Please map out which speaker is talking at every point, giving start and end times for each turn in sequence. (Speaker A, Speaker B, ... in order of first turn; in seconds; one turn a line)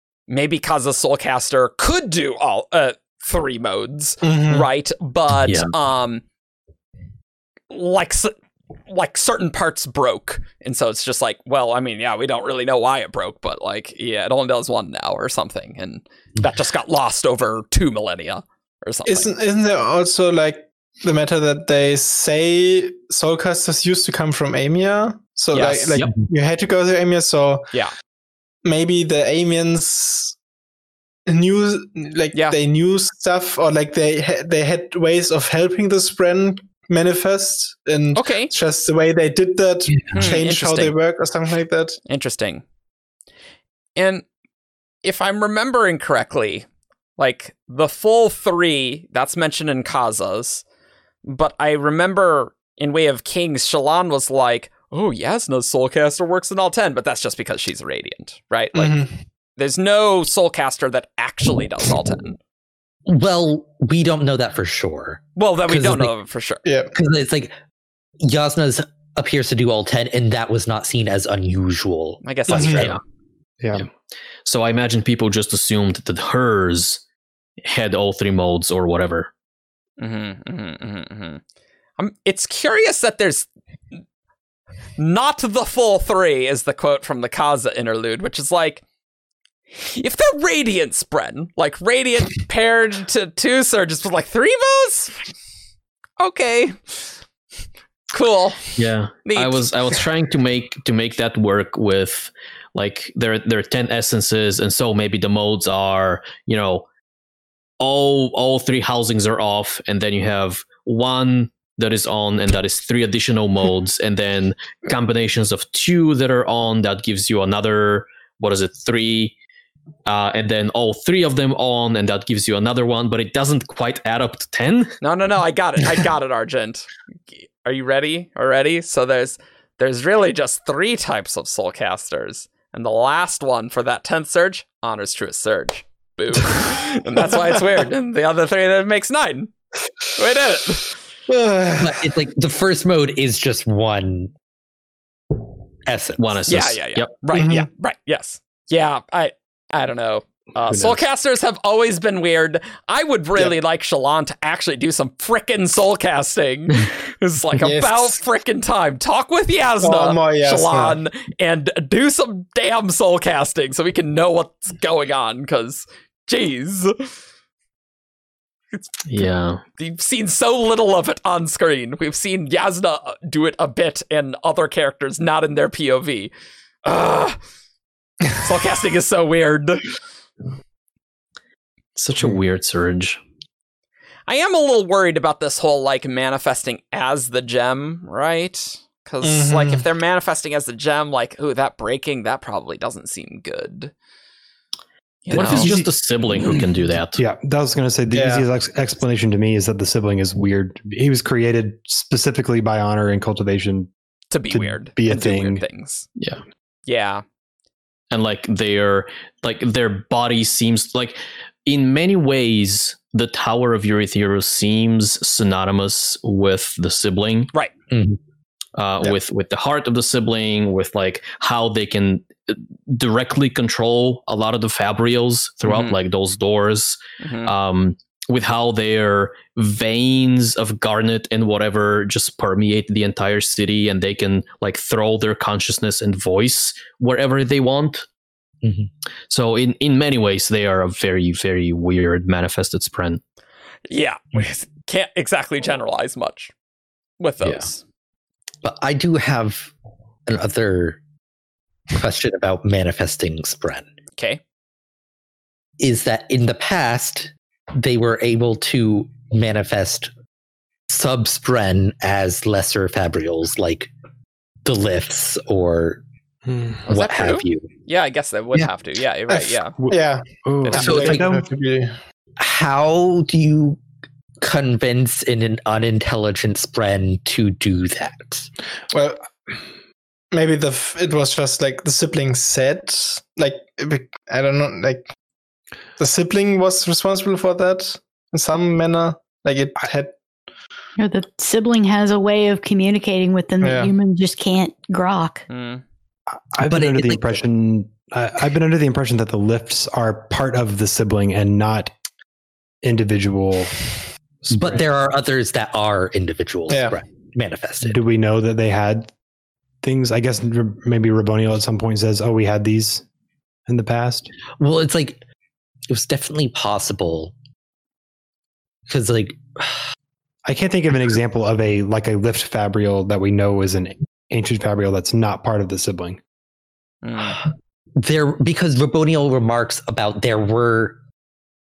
Speaker A: 0.3-6.2
Speaker B: 4.2-4.7
Speaker A: 7.7-8.3
Speaker A: 8.9-19.3
Speaker B: 19.0-27.7
Speaker A: 25.5-26.0
Speaker B: 28.6-30.3
Speaker B: 31.3-42.0
Speaker A: 38.1-38.5
Speaker C: 39.9-40.3
Speaker A: 40.1-40.9
Speaker A: 42.1-42.6
Speaker A: 44.0-44.2
Speaker A: 45.0-50.6
Speaker A: 51.2-59.0
Speaker B: 58.7-59.1
Speaker A: 59.6-62.4
Speaker C: 63.0-66.1
Speaker A: 65.4-66.6
Speaker B: 66.6-66.9
Speaker C: 66.9-67.5
Speaker C: 68.2-73.0
Speaker A: 72.2-72.9
Speaker B: 72.5-72.9
Speaker D: 72.7-73.0
Speaker E: 73.6-73.9
Speaker D: 74.4-77.0
Speaker D: 77.6-79.3
Speaker A: 80.0-81.4
Speaker A: 82.0-84.0
Speaker A: 85.0-88.8
Speaker A: 89.8-95.3
Speaker A: 96.2-97.1
Speaker A: 98.1-99.6
Speaker D: 98.8-106.8
Speaker D: 107.8-119.3
Speaker D: 120.0-125.0
Speaker A: 125.0-139.5
Speaker A: 140.1-140.9
Speaker B: 141.3-142.0
Speaker C: 141.8-144.3
Speaker C: 145.8-146.3
Speaker D: 146.2-147.1
Speaker A: 146.5-167.1
Speaker B: 147.3-147.7
Speaker E: 150.7-151.0
Speaker B: 157.6-158.2
Speaker B: 159.8-161.0
Speaker A: 168.7-169.2
Speaker D: 169.1-169.6
Speaker A: 169.8-176.3
Speaker A: 176.8-177.4
Speaker A: 178.3-179.9
Speaker D: 181.9-183.2
Speaker A: 184.3-193.9
Speaker B: 189.2-189.8
Speaker A: 195.2-195.8
Speaker D: 195.3-197.2
Speaker E: 195.3-195.9
Speaker E: 196.4-203.9
Speaker B: 198.1-198.4
Speaker A: 204.3-206.1
Speaker E: 204.5-205.6
Speaker D: 206.2-206.4
Speaker A: 206.9-207.2
Speaker D: 208.1-217.5
Speaker C: 217.9-218.2
Speaker D: 218.7-238.1
Speaker A: 225.6-226.0
Speaker A: 227.2-227.5
Speaker C: 238.6-238.9
Speaker D: 239.3-243.2
Speaker A: 243.9-246.5
Speaker A: 247.2-247.8
Speaker C: 248.6-249.7
Speaker C: 250.2-251.0
Speaker C: 251.9-253.9
Speaker C: 255.8-260.1
Speaker C: 260.9-263.9
Speaker C: 264.6-266.0
Speaker E: 266.4-266.8
Speaker A: 266.9-269.8
Speaker C: 266.9-267.7
Speaker B: 269.3-271.9
Speaker E: 269.8-271.4
Speaker A: 270.6-271.0
Speaker C: 270.7-271.4
Speaker C: 272.4-273.8
Speaker C: 274.4-278.5
Speaker B: 278.9-279.2
Speaker B: 280.3-285.1
Speaker B: 286.0-290.1
Speaker F: 291.0-295.4
Speaker B: 293.6-293.9
Speaker A: 295.5-295.8
Speaker E: 296.3-301.9
Speaker C: 296.6-297.4
Speaker E: 302.8-303.8
Speaker E: 304.4-304.9
Speaker C: 304.5-308.0
Speaker B: 306.7-306.9
Speaker E: 307.8-309.1
Speaker E: 309.8-313.0
Speaker E: 313.7-314.3
Speaker C: 314.6-315.2
Speaker C: 315.9-317.3
Speaker C: 318.9-319.8
Speaker E: 320.4-326.2
Speaker A: 327.0-327.4
Speaker C: 328.0-331.0